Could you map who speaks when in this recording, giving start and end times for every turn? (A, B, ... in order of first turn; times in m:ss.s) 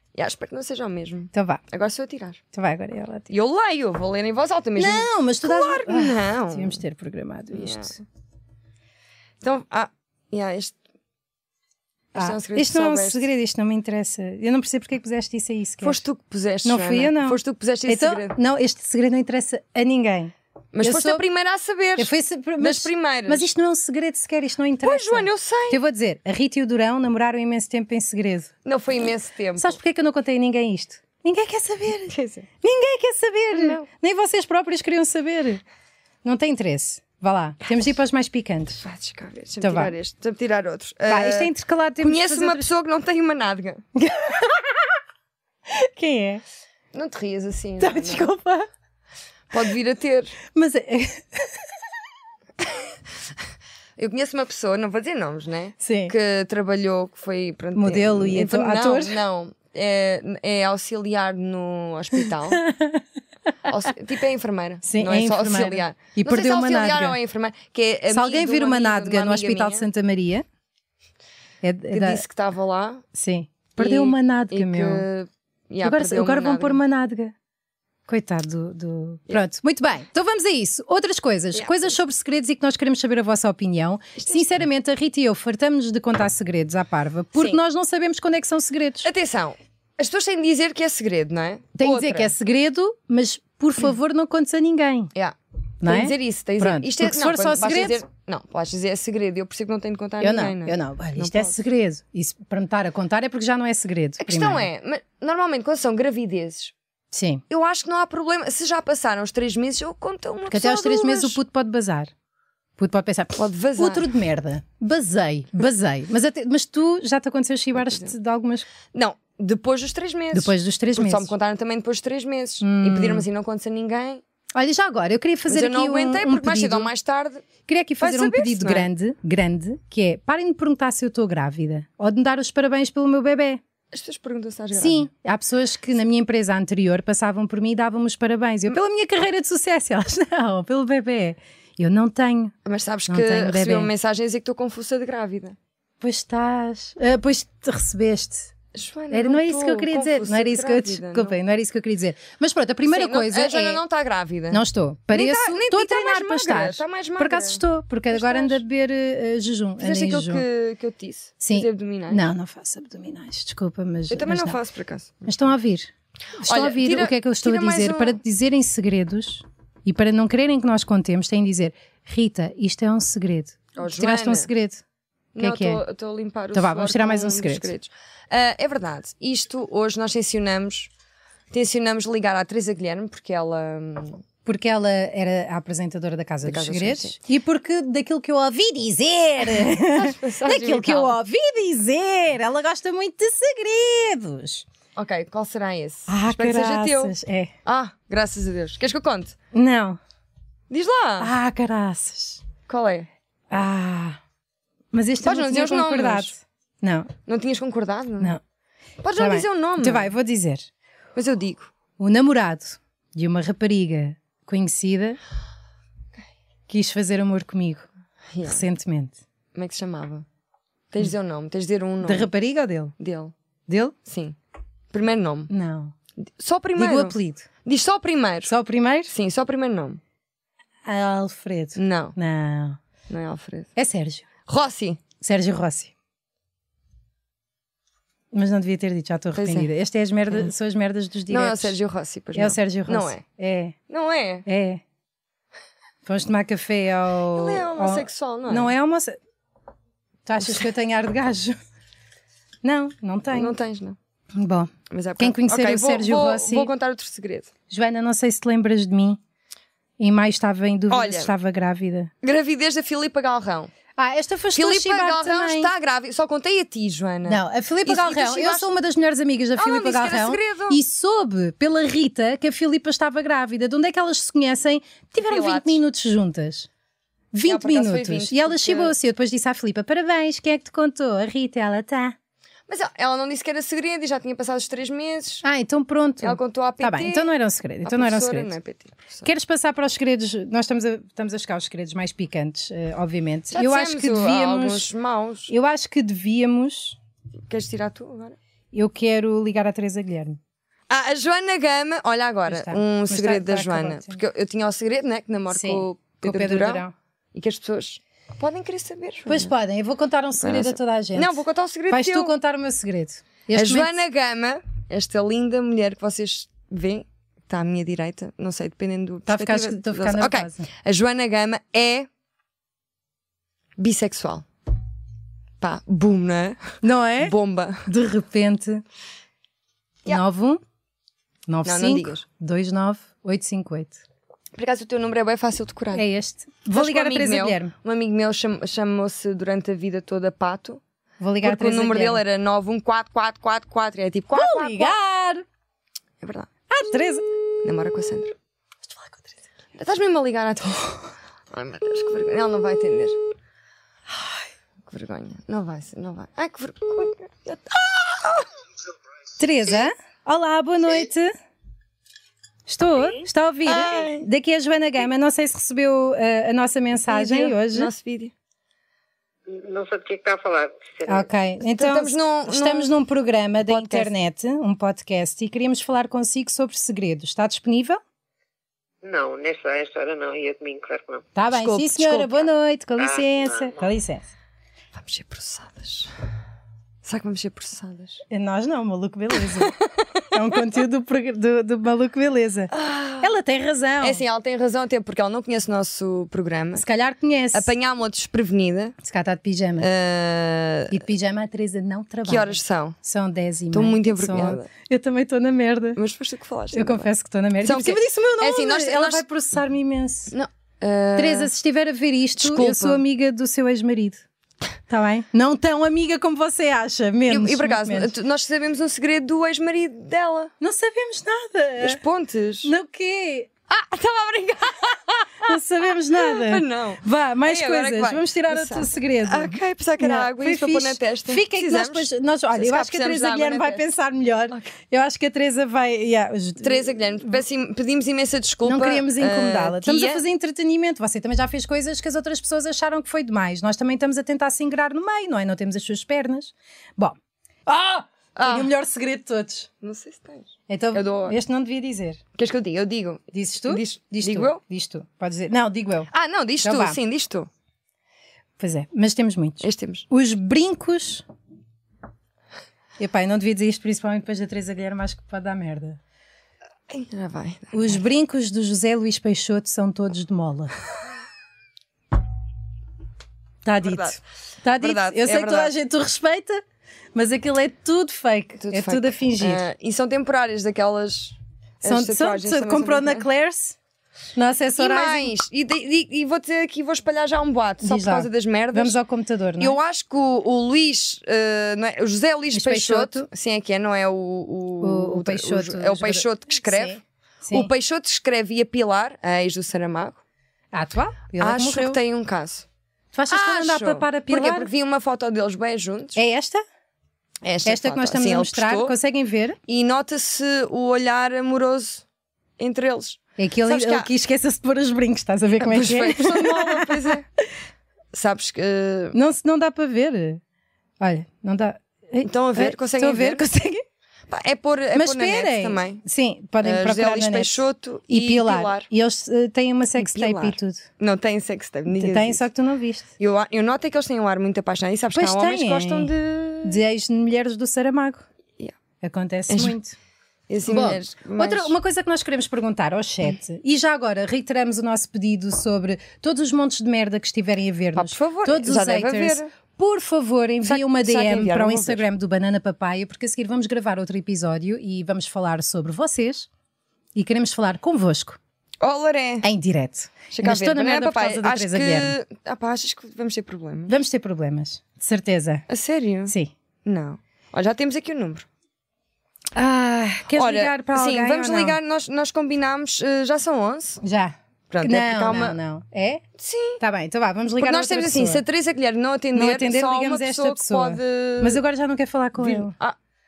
0:00.2-0:02.4 A
0:01.3-0:01.6 B
0:02.5-0:03.3 B
0:03.3-0:06.8 A
0:04.8-0:08.0 B
0:07.5-0:08.0 A
0:09.4-0:10.8 A
0:12.1-0:16.0 B
0:12.2-0:13.3 A
0:15.8-0:18.4 A
0:16.6-0:21.2 B
0:20.7-0:23.5 A
0:22.0-0:28.5 B
0:24.8-0:25.8 A
0:28.6-0:29.8 A
0:29.6-0:35.6 B
0:32.1-0:32.5 A
0:33.5-0:33.9 A
0:36.2-0:38.8 B
0:38.8-0:43.8 A
0:39.6-0:39.9 B
0:41.1-0:42.7 B
0:44.0-0:45.0 B
0:45.7-0:46.4 B
0:46.9-0:48.3 A
0:47.8-0:48.7 B
0:49.5-0:50.4 A
0:50.5-0:51.7 B
0:54.0-1:02.6 A
0:55.8-0:56.1 B
0:57.8-0:59.2 B
1:02.5-1:03.0 B
1:03.7-1:09.9 A
1:04.8-1:07.2 B
1:08.1-1:10.4 B
1:11.6-1:12.2 B
1:11.9-1:13.0 A
1:13.1-1:15.1 B
1:13.8-1:16.8 A
1:15.8-1:17.3 B
1:18.1-1:29.1 B
1:21.5-1:22.0 A
1:24.2-1:24.6 A
1:29.0-1:32.3 A
1:31.8-1:35.1 B
1:35.2-1:41.6 A
1:35.8-1:38.0 B
1:40.2-1:44.7 B
1:44.2-1:46.7 A
1:47.1-1:47.4 B
1:47.5-1:51.4 A
1:50.5-1:52.1 B
1:52.8-1:58.7 B
1:53.4-1:54.1 A
1:57.8-1:58.1 A
1:58.9-2:04.2 A
2:00.3-2:01.3 B
2:02.6-2:03.3 B
2:04.6-2:06.9 B
2:05.5-2:07.5 A
2:07.7-2:13.6 B
2:08.0-2:08.9 A
2:13.9-2:15.1 A
2:14.7-2:22.6 B
2:22.6-2:25.6 A
2:23.1-2:23.9 B
2:26.0-2:28.5 B
2:28.7-2:31.4 A
2:29.1-2:33.8 B
2:32.9-2:34.6 A
2:34.5-2:40.4 B
2:35.1-2:38.6 A
2:39.8-2:42.3 A
2:41.4-2:44.6 B
2:44.1-2:45.4 A
2:45.3-2:54.8 B
2:46.4-2:48.2 A
2:53.8-2:54.5 A
2:55.4-3:00.9 A
2:55.4-2:55.8 B
2:56.5-2:57.7 B
3:01.5-3:04.2 A
3:04.4-3:14.6 B
3:06.4-3:07.2 A
3:09.5-3:11.2 A
3:15.0-3:19.4 A
3:16.1-3:17.5 B
3:19.5-3:20.0 B
3:20.7-3:21.3 A
3:21.2-3:22.4 B
3:22.7-3:23.1 A
3:23.5-3:24.2 B
3:24.9-3:27.1 B
3:25.2-3:26.3 A
3:27.3-3:28.4 A
3:29.0-3:30.1 A
3:29.2-3:30.7 B
3:31.2-3:31.7 A
3:32.0-3:35.2 B
3:36.7-3:37.9 B
3:38.4-3:38.6 A
3:38.4-3:39.2 B
3:39.6-3:40.3 A
3:40.9-3:42.3 A
3:42.0-3:43.0 B
3:43.0-3:43.3 A
3:43.7-3:44.0 B
3:44.0-3:44.4 A
3:44.9-3:45.5 A
3:45.5-3:45.9 B
3:46.3-3:48.5 A
3:46.8-3:47.5 B
3:48.5-3:49.1 B
3:49.1-3:50.0 A
3:50.8-3:52.8 B
3:51.8-3:52.2 A
3:53.1-3:53.7 A
3:53.8-3:54.3 B
3:54.5-3:55.0 A
3:55.2-3:55.9 B
3:58.3-4:01.8 B
3:59.3-3:59.7 A
4:01.3-4:03.2 A
4:02.4-4:03.8 B
4:03.9-4:04.5 A
4:04.5-4:04.8 B
4:06.0-4:09.2 B
4:07.3-4:08.7 A
4:10.3-4:11.6 B
4:12.6-4:13.6 B
4:13.3-4:14.0 A
4:14.4-4:16.7 B
4:14.9-4:17.5 A
4:17.7-4:19.2 B
4:20.0-4:22.1 B
4:20.9-4:21.3 A
4:22.2-4:23.7 A
4:24.0-4:25.7 B
4:24.5-4:28.7 A
4:27.3-4:36.7 B
4:29.6-4:30.8 A
4:35.2-4:35.8 A
4:37.3-4:42.2 B
4:37.4-4:39.0 A
4:42.7-4:45.4 A
4:45.4-4:48.5 B
4:46.2-4:47.3 A
4:47.8-4:49.3 A
4:49.2-4:54.9 B
4:53.5-4:55.5 A
4:55.5-4:57.0 B
4:57.5-4:58.4 A
4:58.7-5:00.4 B
5:00.9-5:09.5 A
5:02.5-5:04.2 B
5:05.5-5:06.9 B
5:09.3-5:14.0 B
5:10.4-5:12.3 A
5:13.5-5:22.1 A
5:19.3-5:20.7 B
5:23.8-5:24.5 A
5:25.6-5:27.9 A
5:26.8-5:28.8 B
5:30.1-5:30.6 B
5:31.5-5:34.0 B
5:31.6-5:32.2 A
5:34.6-5:36.0 A
5:35.9-5:37.7 B
5:36.7-5:40.8 A
5:41.2-5:42.2 B
5:41.4-5:45.0 A
5:44.3-5:45.4 B
5:46.2-5:46.5 A
5:46.7-5:47.3 B
5:47.6-5:48.3 A
5:48.9-5:49.2 B
5:49.8-5:53.2 A
5:54.9-5:58.5 A
5:59.4-6:01.3 B
6:02.7-6:07.9 B
6:03.6-6:04.3 A
6:07.1-6:08.3 A
6:09.5-6:11.3 C
6:11.1-6:18.0 B
6:11.7-6:12.9 A
6:13.6-6:14.1 A
6:19.0-6:21.3 C
6:21.4-6:24.3 B
6:21.5-6:22.5 A
6:23.0-6:23.8 C
6:25.0-6:26.1 A
6:27.0-6:28.2 A
6:28.3-6:29.8 B
6:30.3-6:34.2 B
6:32.7-6:33.3 A
6:34.0-6:36.8 A
6:36.8-6:37.7 B
6:37.5-6:39.0 A
6:39.0-6:39.9 B
6:39.8-6:41.0 A
6:40.9-6:46.0 B
6:42.3-6:43.0 A
6:43.7-6:44.7 A
6:46.0-6:47.1 A
6:46.7-6:50.3 B
6:47.6-6:49.2 A
6:50.3-6:51.5 A
6:51.2-6:54.2 B
6:52.4-6:53.0 A
6:54.9-6:58.1 B
6:57.3-7:00.5 A
7:00.6-7:02.0 B
7:01.8-7:02.7 A
7:02.6-7:03.5 B
7:03.7-7:05.6 A
7:05.4-7:17.4 B
7:06.1-7:13.9 A
7:16.6-7:20.2 A
7:18.6-7:29.7 B
7:28.4-7:28.7 A
7:29.8-7:31.4 A
7:30.7-7:32.2 B
7:32.4-7:34.6 A
7:33.3-7:36.1 B
7:36.1-7:37.5 A
7:36.6-7:37.0 B
7:38.6-7:41.2 B
7:39.6-7:40.1 A
7:43.0-7:46.0 B
7:46.9-7:48.0 A
7:47.7-7:50.7 B
7:53.6-7:56.6 B
7:53.8-7:54.2 A
7:54.8-7:55.7 A
7:57.2-7:59.7 B
7:58.6-8:03.3 A
8:01.8-8:03.8 B
8:04.4-8:05.3 B
8:04.8-8:09.0 A
8:07.8-8:09.8 B
8:09.6-8:17.0 A
8:12.5-8:13.3 B
8:14.8-8:17.7 B
8:17.5-8:20.2 A
8:20.7-8:22.0 B
8:21.4-8:22.7 A
8:23.1-8:24.7 B
8:23.3-8:26.2 A
8:26.2-8:26.6 B
8:27.4-8:28.9 A
8:27.6-8:29.6 B
8:29.7-8:32.0 A
8:32.6-8:34.1 A
8:33.4-8:37.1 B
8:35.6-8:37.2 A
8:38.1-8:39.2 A
8:39.1-8:40.4 B
8:41.0-8:43.8 B
8:42.2-8:43.4 A
8:44.3-8:46.0 A
8:44.9-8:50.9 B
8:46.6-8:48.9 A
8:50.0-8:52.4 A
8:51.9-8:53.1 B
8:53.2-8:56.8 A
8:55.1-8:56.1 B
8:56.6-8:58.2 B
8:59.0-9:00.0 B
8:59.5-8:59.8 A
9:00.5-9:01.8 A
9:00.6-9:16.5 B
9:08.0-9:09.5 A
9:10.6-9:12.0 A
9:17.2-9:18.4 B
9:18.8-9:19.5 A
9:19.4-9:22.2 B
9:20.3-9:24.0 A
9:23.9-9:25.6 B
9:25.7-9:28.5 A
9:26.3-9:26.5 B
9:29.6-9:31.8 B
9:30.2-9:34.0 A
9:34.0-9:36.2 B
9:34.7-9:35.6 A
9:36.4-9:36.8 A
9:36.8-9:38.4 B
9:37.6-9:41.6 A
9:39.3-9:42.7 B
9:42.4-9:43.0 A